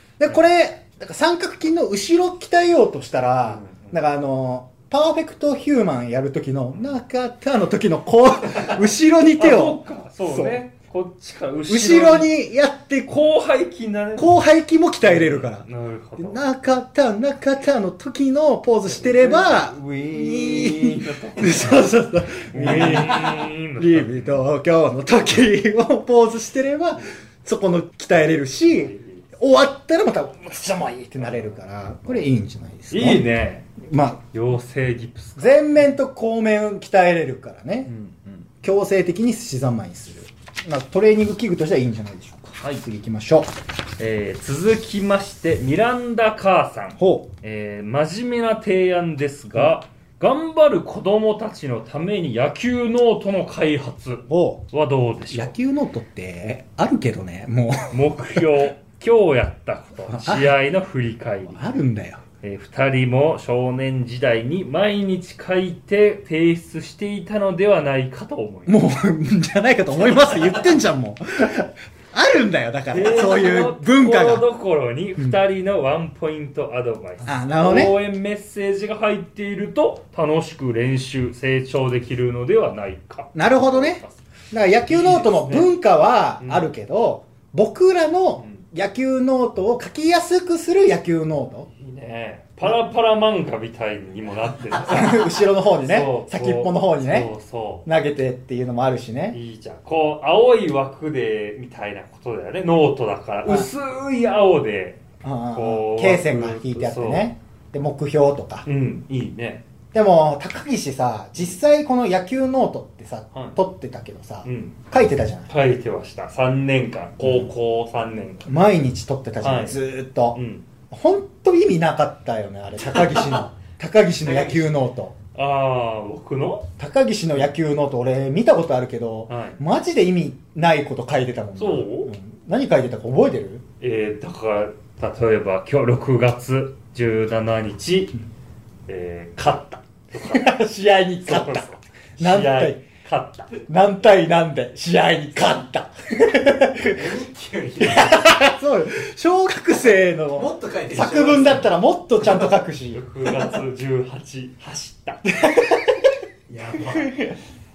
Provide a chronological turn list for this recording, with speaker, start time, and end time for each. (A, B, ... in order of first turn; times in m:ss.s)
0:00.2-0:10.6 A
0:03.6-0:04.0 B
0:09.4-0:12.3 B
0:11.7-0:13.2 A
0:13.1-0:14.4 B
0:14.2-0:15.6 A
0:15.0-0:16.4 B
0:16.2-0:33.2 A
0:18.8-0:24.4 B
0:28.7-0:29.2 B
0:32.9-0:33.7 B
0:33.8-0:34.2 A
0:34.3-0:35.8 B
0:35.4-0:37.9 A
0:37.9-0:38.4 B
0:38.6-0:43.5 A
0:42.6-0:42.8 B
0:44.0-0:55.5 B
0:47.0-0:47.3 A
0:54.3-0:54.7 A
0:55.3-0:58.6 A
0:57.9-1:01.6 B
1:00.1-1:00.6 A
1:01.4-1:02.2 A
1:02.4-1:08.8 B
1:08.6-1:14.5 A
1:12.9-1:24.2 B
1:17.2-1:18.0 A
1:23.3-1:31.7 A
1:24.9-1:25.7 B
1:26.4-1:26.7 B
1:31.8-1:37.9 B
1:34.6-1:37.3 A
1:37.8-1:39.4 A
1:39.3-1:45.0 B
1:43.4-1:43.7 A
1:45.2-1:48.6 A
1:45.5-1:47.3 B
1:48.6-1:49.6 B
1:49.9-1:55.5 A
1:54.4-1:54.8 B
1:55.5-1:58.5 B
1:57.2-1:57.5 A
1:58.4-2:05.1 A
1:59.4-1:59.8 B
2:00.3-2:00.6 B
2:04.2-2:04.7 B
2:05.3-2:06.6 B
2:06.8-2:13.6 A
2:09.3-2:09.6 B
2:11.6-2:12.1 B
2:13.8-2:18.1 B
2:18.9-2:20.5 B
2:20.2-2:22.8 A
2:21.2-2:23.5 B
2:23.7-2:27.1 A
2:26.9-2:28.5 C
2:27.8-2:33.0 A
2:30.3-2:32.5 C
2:32.9-2:35.2 B
2:35.3-2:36.1 A
2:36.5-2:37.2 C